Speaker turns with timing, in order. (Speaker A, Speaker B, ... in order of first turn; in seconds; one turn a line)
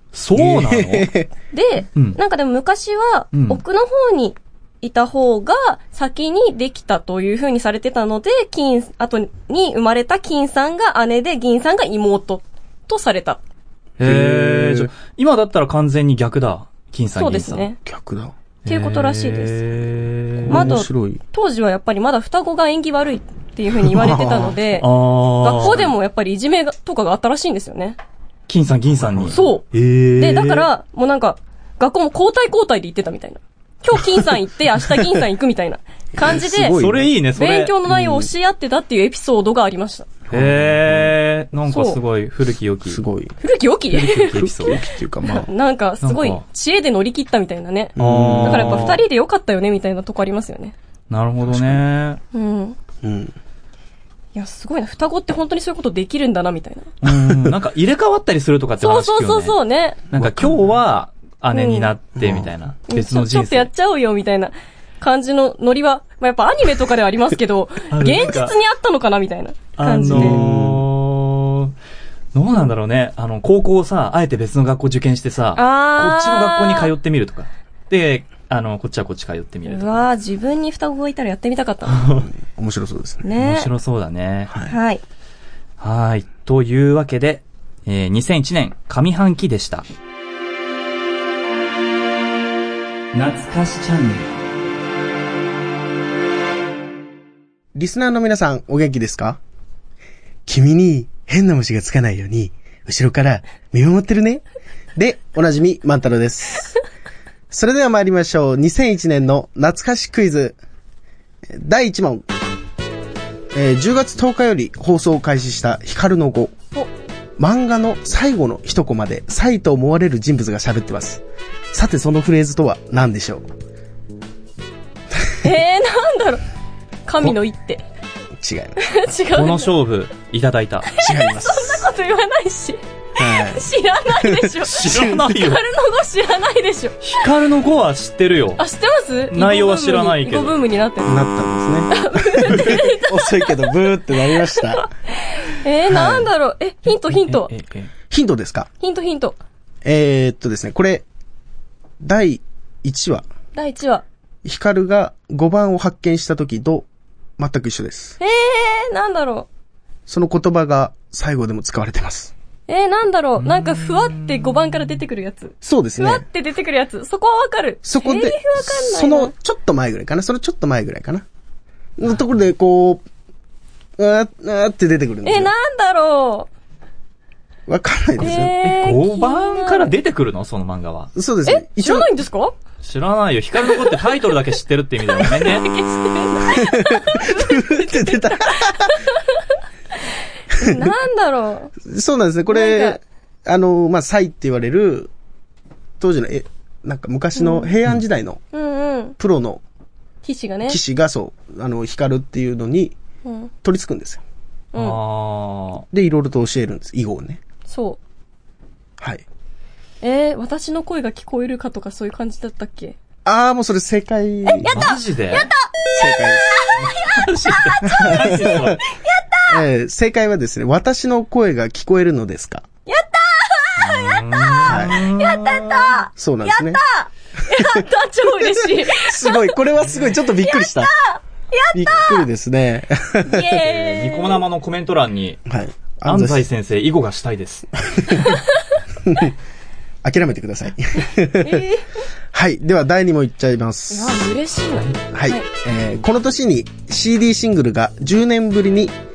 Speaker A: 0.1-1.1
Speaker B: 0.3-1.3
Speaker C: 1.5-13.4
Speaker A: 3.3-3.6
Speaker A: 14.0-17.6
Speaker B: 14.0-14.9
Speaker C: 17.1-17.8
Speaker B: 17.8-18.4
Speaker A: 18.6-20.7
Speaker C: 18.6-19.6
Speaker B: 20.4-21.2
Speaker C: 20.5-24.9
Speaker B: 23.8-24.6
Speaker A: 24.8-25.9
Speaker C: 25.4-28.0
Speaker A: 28.5-30.7
Speaker B: 28.9-29.4
Speaker C: 29.3-29.6
Speaker C: 30.2-36.8
Speaker B: 36.1-37.1
Speaker A: 36.7-37.7
Speaker C: 37.3-40.1
Speaker B: 37.9-38.3
Speaker B: 40.3-41.1
Speaker A: 40.3-43.0
Speaker C: 41.7-42.0
Speaker B: 42.8-43.4
Speaker C: 43.4-50.8
Speaker A: 43.9-44.8
Speaker B: 44.3-45.5
Speaker A: 46.0-46.4
Speaker B: 48.0-48.9
Speaker A: 48.0-49.0
Speaker A: 51.1-52.2
Speaker B: 51.5-51.8
Speaker C: 52.3-52.8
Speaker B: 53.0-53.4
Speaker C: 54.3-56.9
Speaker A: 57.0-59.6
Speaker B: 57.0-57.5
Speaker C: 58.8-60.0
Speaker A: 60.1-63.7
Speaker B: 60.1-60.6
Speaker C: 61.5-61.9
Speaker B: 62.1-62.5
Speaker C: 62.9-70.4
Speaker A: 67.9-68.5
Speaker A: 69.8-71.7
Speaker B: 70.1-70.8
Speaker A: 72.3-80.0
Speaker C: 75.5-76.9
Speaker C: 79.7-82.0
Speaker A: 81.9-82.3
Speaker B: 82.1-83.2
Speaker C: 83.2-83.7
Speaker A: 83.4-84.5
Speaker B: 84.5-84.7
Speaker C: 84.7-85.0
Speaker A: 85.8-89.8
Speaker A: 93.1-94.3
Speaker B: 97.7-99.4
Speaker B: 100.5-104.4
Speaker B: 104.9-106.8
Speaker B: 107.5-110.6
Speaker B: 111.5-112.3
Speaker B: 113.5-116.5
Speaker B: 117.4-121.2
Speaker B: 121.7-123.5
Speaker C: 125.4-126.4
Speaker C: 127.0-127.8
Speaker B: 128.4-128.8
Speaker C: 128.8-129.7
Speaker A: 129.3-130.9
Speaker B: 131.0-131.9
Speaker C: 131.0-137.0
Speaker B: 133.2-133.6
Speaker B: 134.2-135.2
Speaker A: 134.7-135.6
Speaker A: 137.0-138.6
Speaker C: 138.6-141.2
Speaker A: 139.3-140.6
Speaker B: 141.1-144.9
Speaker C: 141.9-143.7
Speaker C: 144.3-147.5
Speaker B: 145.9-146.3
Speaker A: 147.1-147.9
Speaker B: 148.1-148.7
Speaker C: 148.8-149.4
Speaker B: 149.8-151.1
Speaker B: 152.0-153.3
Speaker C: 153.5-154.0
Speaker B: 154.4-156.9
Speaker B: 157.4-158.2
Speaker C: 158.2-159.5
Speaker B: 160.1-162.3
Speaker C: 162.7-169.3
Speaker A: 163.5-164.5
Speaker B: 165.6-166.2
Speaker B: 167.8-171.2
Speaker B: 172.0-173.0
Speaker B: 174.0-175.5
Speaker C: 175.2-176.5
Speaker B: 177.7-178.5
Speaker A: 178.2-181.1
Speaker C: 178.2-179.9
Speaker B: 181.1-182.1
Speaker C: 181.4-182.5
Speaker A: 182.8-185.7
Speaker C: 183.7-184.0
Speaker C: 185.1-189.2
Speaker B: 186.5-189.0
Speaker C: 190.5-191.7
Speaker B: 190.6-190.9
Speaker B: 191.8-195.1
Speaker C: 192.5-193.0
Speaker B: 196.0-198.4
Speaker C: 197.3-197.7
Speaker C: 198.5-199.2
Speaker B: 199.2-199.6
Speaker C: 200.2-200.8
Speaker B: 200.7-202.9
Speaker C: 203.2-203.5
Speaker B: 203.6-204.2
Speaker A: 204.7-205.8
Speaker B: 205.9-207.4
Speaker C: 207.7-208.0
Speaker B: 209.0-209.2
Speaker C: 210.0-213.0
Speaker B: 213.2-214.8
Speaker C: 214.4-219.6
Speaker A: 214.7-215.5
Speaker B: 216.0-216.5
Speaker A: 216.8-218.8
Speaker B: 217.8-218.8
Speaker B: 219.5-222.7
Speaker C: 222.9-229.6
Speaker A: 223.8-226.0
Speaker B: 224.7-225.0
Speaker B: 226.2-226.8
Speaker B: 227.5-230.9
Speaker C: 230.4-232.3
Speaker B: 231.7-233.6
Speaker C: 233.2-234.4
Speaker A: 233.7-235.4
Speaker B: 235.5-236.4
Speaker A: 236.0-237.7
Speaker B: 237.9-238.2
Speaker C: 238.1-238.4
Speaker B: 239.1-239.3
Speaker B: 240.0-241.7
Speaker C: 241.4-241.9
Speaker B: 242.3-244.3
Speaker C: 243.9-245.5
Speaker B: 245.1-248.9